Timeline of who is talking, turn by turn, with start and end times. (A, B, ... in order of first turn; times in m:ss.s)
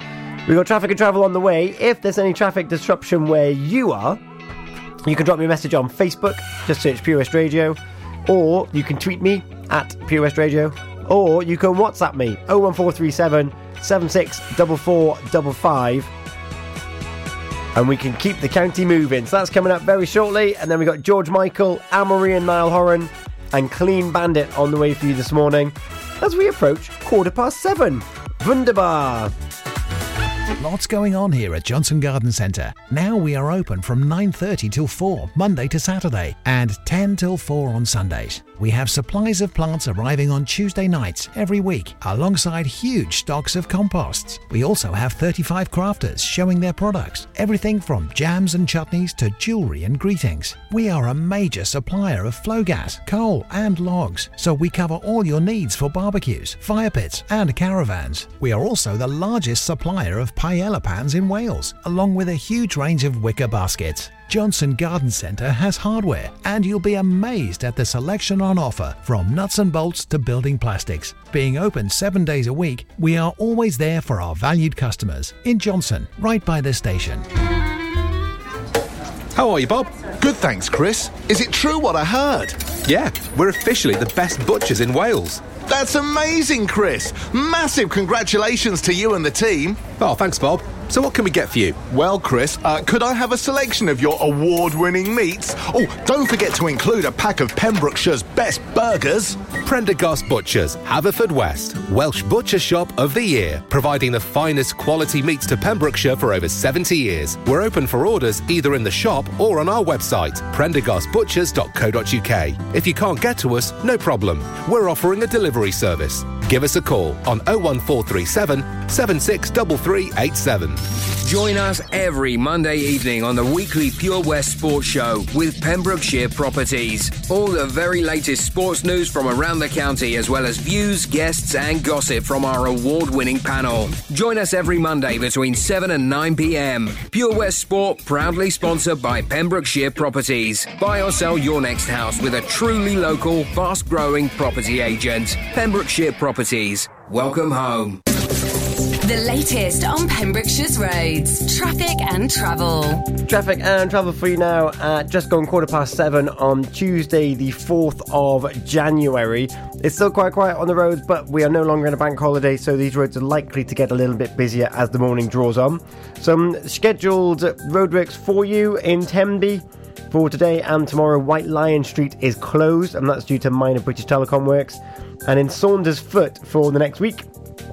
0:00.5-0:04.2 A
0:05.0-0:16.1 A
0:17.7-0:29.3 A
0:30.6-1:17.2 B
1:19.3-1:19.9 C
1:20.2-1:22.6 D
1:22.8-1:25.5 C
1:25.6-1:30.0 D
1:30.0-1:31.8 C
1:31.9-1:39.5 D
1:39.5-2:00.8 C
2:01.2-2:28.0 E
2:29.0-2:33.1 F
2:33.2-2:57.2 A